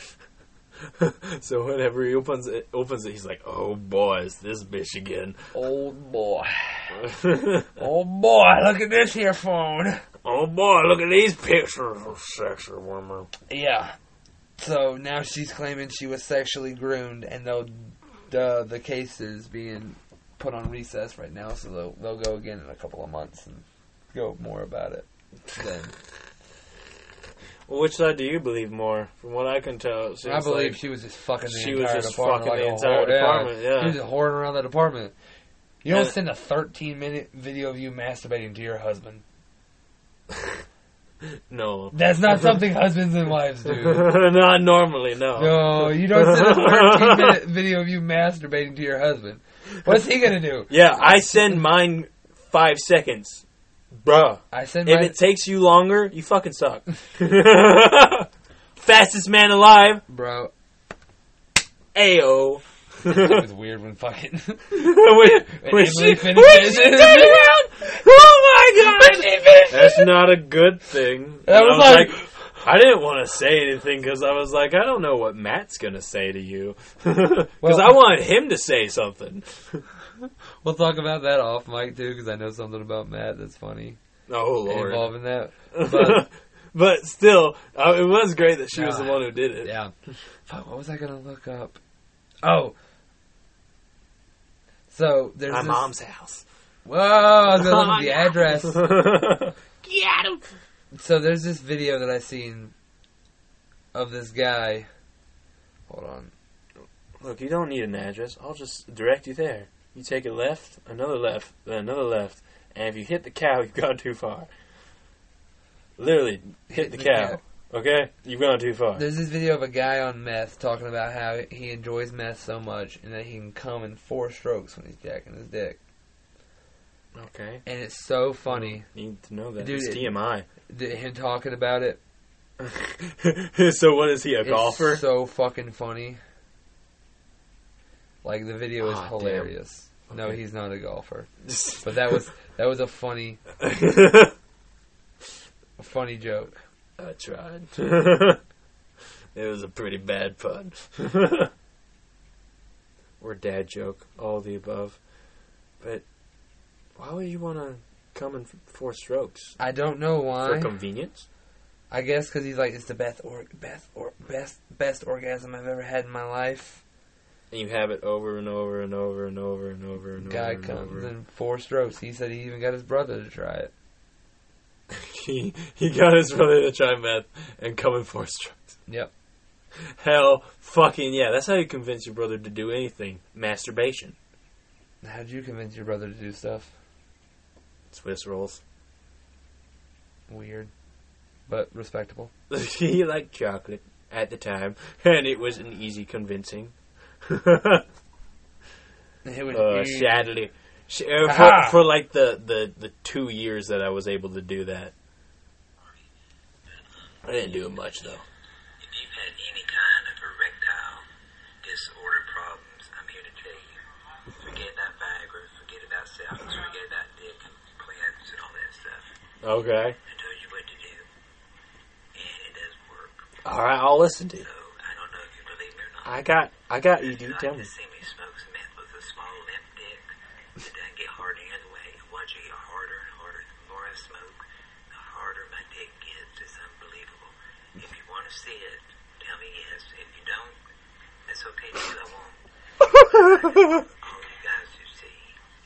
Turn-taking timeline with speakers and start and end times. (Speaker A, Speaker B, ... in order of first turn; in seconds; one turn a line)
Speaker A: 1.0-5.4
Speaker B: 5.5-7.0
Speaker A: 7.0-7.7
Speaker B: 7.8-10.0
Speaker A: 10.2-13.3
Speaker B: 13.5-14.0
Speaker B: 14.6-25.9
Speaker A: 27.7-30.8
Speaker B: 30.2-35.1
Speaker A: 31.4-34.0
Speaker B: 35.8-39.2
Speaker A: 35.9-36.1
Speaker A: 41.5-42.5
Speaker B: 41.9-44.1
Speaker A: 43.8-47.4
Speaker B: 45.4-51.6
Speaker A: 50.7-53.4
Speaker A: 53.9-60.0
Speaker B: 54.5-55.2
Speaker B: 60.1-60.5
Speaker A: 61.9-63.4
Speaker B: 63.0-67.9
Speaker A: 64.7-79.8
Speaker B: 68.8-70.4
Speaker B: 71.5-72.3
Speaker B: 77.6-78.1
Speaker B: 80.6-84.0
Speaker A: 84.3-85.1
Speaker B: 84.7-86.3
Speaker A: 85.7-89.7
Speaker B: 88.7-89.9
Speaker B: 90.5-91.8
Speaker B: 92.4-92.8
Speaker B: 94.9-95.9
Speaker A: 95.5-96.4
Speaker B: 96.8-98.9
Speaker A: 97.5-100.4
Speaker B: 100.9-102.7
Speaker B: 103.9-104.9
Speaker B: 105.9-106.3
Speaker A: 107.2-114.5
Speaker A: 116.0-119.1
Speaker B: 116.7-117.4
Speaker B: 119.0-125.8
Speaker A: 127.2-127.6
Speaker B: 127.7-128.9
Speaker A: 128.5-130.5
Speaker B: 129.6-132.0
Speaker A: 132.6-135.0
Speaker B: 134.4-136.2
Speaker B: 138.2-143.4
Speaker A: 138.8-139.5
Speaker A: 140.1-140.4
Speaker A: 141.4-142.2
Speaker A: 143.6-144.3
Speaker B: 145.8-146.6
Speaker A: 147.0-148.4
Speaker A: 149.3-151.5
Speaker A: 153.2-155.0
Speaker A: 157.0-159.6
Speaker B: 159.6-160.8
Speaker A: 160.4-161.3
Speaker B: 161.9-166.8
Speaker A: 167.5-171.1
Speaker B: 170.2-173.7
Speaker A: 174.9-178.8
Speaker A: 180.0-184.2
Speaker B: 185.0-186.7
Speaker A: 187.9-188.6
Speaker B: 190.3-190.7
Speaker B: 191.5-192.3
Speaker A: 192.5-196.7
Speaker A: 197.3-197.8
Speaker B: 199.2-200.3
Speaker A: 199.5-204.9
Speaker B: 201.2-201.8
Speaker C: 206.7-207.3
Speaker A: 207.2-208.2
Speaker C: 208.8-211.1
Speaker C: 211.6-213.8
Speaker C: 214.3-219.1
Speaker A: 219.4-220.0
Speaker C: 220.1-221.1
Speaker C: 222.1-223.3
Speaker A: 223.4-224.5
Speaker C: 224.4-226.2
Speaker A: 226.0-227.7
Speaker C: 226.9-240.6
Speaker C: 241.3-245.4
Speaker A: 242.9-243.8